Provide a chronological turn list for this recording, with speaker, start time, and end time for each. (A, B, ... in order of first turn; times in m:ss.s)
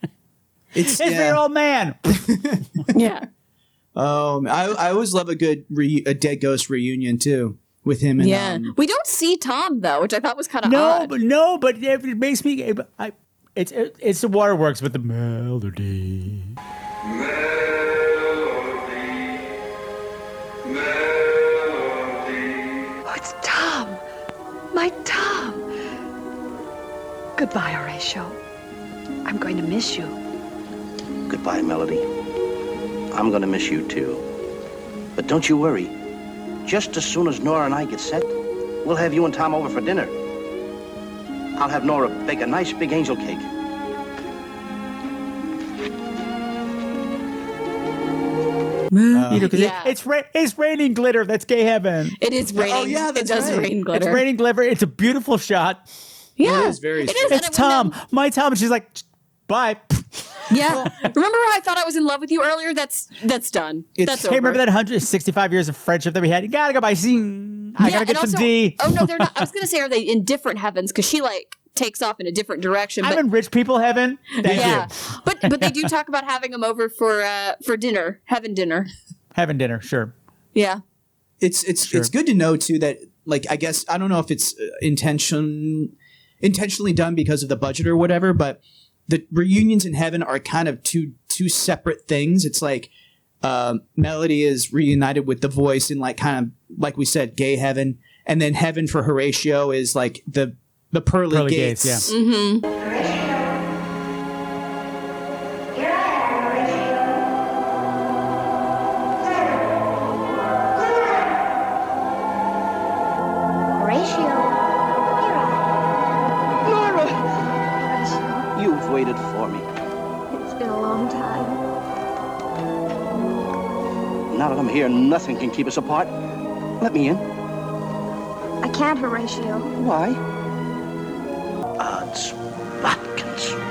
0:00.7-0:01.4 A
0:00.9-0:02.2 B
0:02.2-0:02.6 A
0:02.9-0:03.2 C
0:03.9-0:08.7 A
0:08.2-0:11.1 C
0:10.6-0:16.5 B
0:23.0-0:24.0 D
0:24.7-0:25.6 D
0:27.4-0:28.4 D
0:29.2-0:30.1 D
0:31.3-0:32.0 E
0:33.1-0:34.2 E
0:35.1-0:35.9 E
0:36.6-0:40.1 E
0:41.6-0:43.5 E
0:48.9-0:49.9 C
0:49.1-0:49.5 A
0:49.3-0:52.2 B
0:52.2-0:54.2 C
0:52.5-0:53.7 A
0:53.9-0:55.8 B
0:56.4-0:57.9 C
0:56.4-0:57.4 A
0:57.3-1:00.4 B
1:00.5-1:04.6 C
1:04.0-1:04.2 A
1:04.1-1:09.4 B
1:07.8-1:13.2 C
1:13.0-1:14.9 B
1:14.4-1:18.9 C
1:14.4-1:14.8 A
1:15.4-1:15.8 B
1:19.3-1:20.1 B
1:20.5-1:20.8 C
1:21.4-1:32.9 A
1:33.4-1:42.1 A
1:41.3-1:42.1 B
1:42.1-1:42.6 C
1:42.8-1:43.4 F
1:45.7-1:47.0 F
1:49.2-1:49.6 F
1:50.8-1:51.2 F
1:53.7-1:54.5 F
1:55.2-1:55.7 F
1:56.7-1:57.1 E
1:57.8-1:58.4 F
1:58.5-1:59.6 E
2:00.3-2:01.6 F
2:04.3-2:06.1 E
2:06.8-2:07.2 E
2:08.6-2:09.7 F
2:09.8-2:10.2 E
2:11.8-2:13.6 E